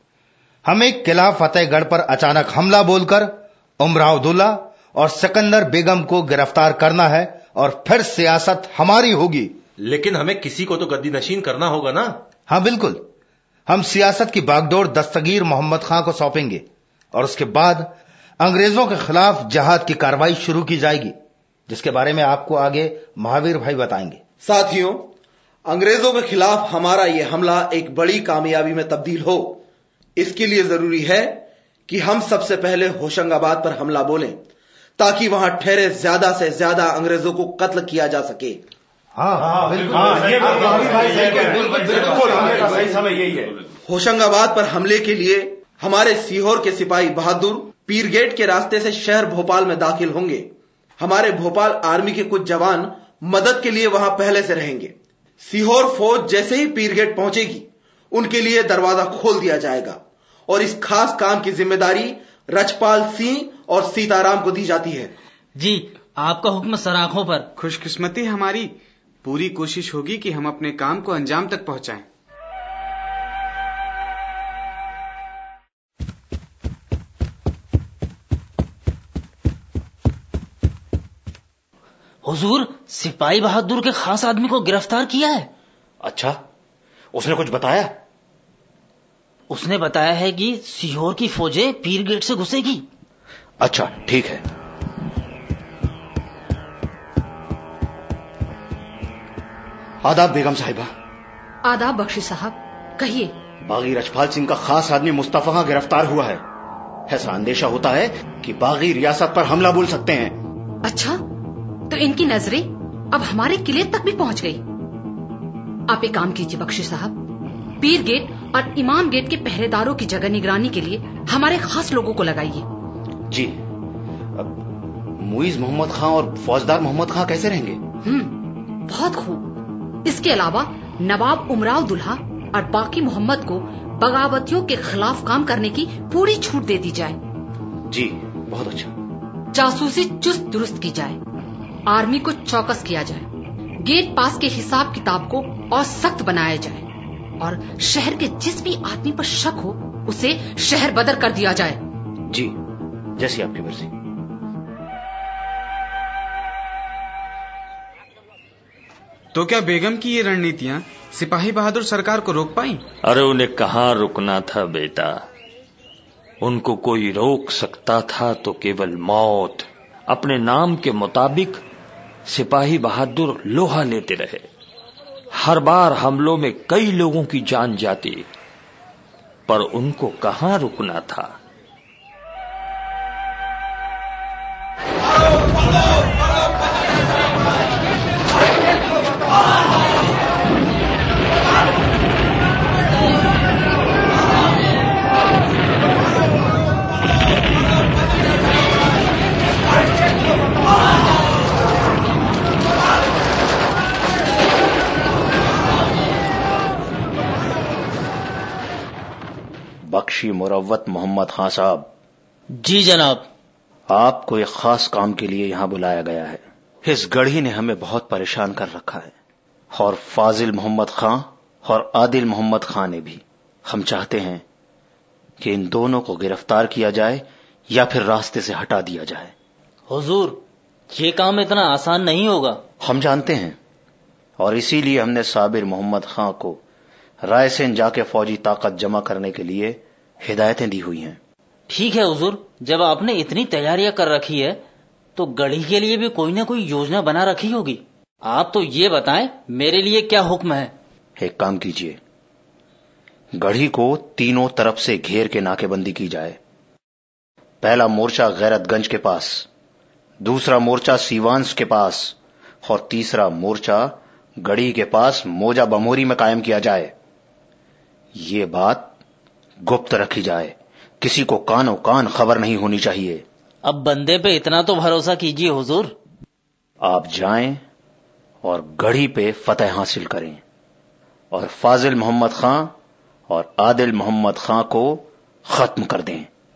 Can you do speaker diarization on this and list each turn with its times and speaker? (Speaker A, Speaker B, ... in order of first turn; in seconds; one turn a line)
Speaker A: 0.7-9.5
Speaker B: 9.8-12.2
Speaker A: 12.5-13.1
Speaker A: 13.7-21.1
Speaker A: 21.7-24.2
Speaker C: 24.4-25.1
Speaker C: 25.6-29.6
Speaker C: 30.2-34.4
Speaker C: 35.0-38.6
Speaker A: 39.1-43.0
Speaker B: 40.0-41.8
Speaker C: 40.5-42.9
Speaker B: 42.9-43.5
Speaker C: 43.9-65.1
Speaker D: 65.6-67.5
Speaker E: 67.6-72.1
Speaker D: 82.2-85.5
Speaker F: 86.0-86.4
Speaker F: 87.1-87.9
Speaker D: 89.5-92.8
Speaker F: 93.6-94.5
Speaker F: 100.0-100.9
Speaker G: 101.6-103.3
Speaker F: 103.6-106.4
Speaker F: 107.1-110.4
Speaker G: 110.8-111.2
Speaker G: 111.9-114.6
Speaker G: 115.9-117.2
Speaker G: 117.8-122.7
Speaker F: 123.3-123.6
Speaker F: 124.3-124.6
Speaker F: 125.1-127.8
Speaker G: 128.0-129.5
Speaker G: 130.0-137.2
Speaker F: 137.9-138.9
Speaker G: 139.5-141.2
Speaker G: 141.9-143.3
Speaker G: 143.8-146.9
Speaker G: 147.4-151.8
Speaker F: 152.3-152.6
Speaker F: 153.2-153.9
Speaker E: 159.3-162.8
Speaker H: 163.0-165.2
Speaker H: 166.4-171.6
Speaker H: 172.3-174.5
Speaker H: 175.3-178.3
Speaker H: 179.5-181.3
Speaker F: 209.8-211.9
Speaker D: 212.5-213.3
Speaker F: 213.9-219.1
Speaker F: 219.7-224.4
Speaker F: 225.4-229.3
Speaker D: 229.9-232.6
Speaker F: 232.8-233.6
Speaker F: 234.4-236.6
Speaker F: 237.2-241.2
Speaker D: 241.7-244.6
Speaker D: 245.2-250.7
Speaker F: 251.2-252.0
Speaker F: 253.3-256.4
Speaker F: 257.6-259.5
Speaker F: 260.2-266.9
Speaker F: 268.1-268.9
Speaker F: 269.6-273.2
Speaker D: 273.6-275.9
Speaker F: 276.8-277.6
Speaker F: 278.4-280.4
Speaker F: 281.3-282.7
Speaker F: 283.3-286.3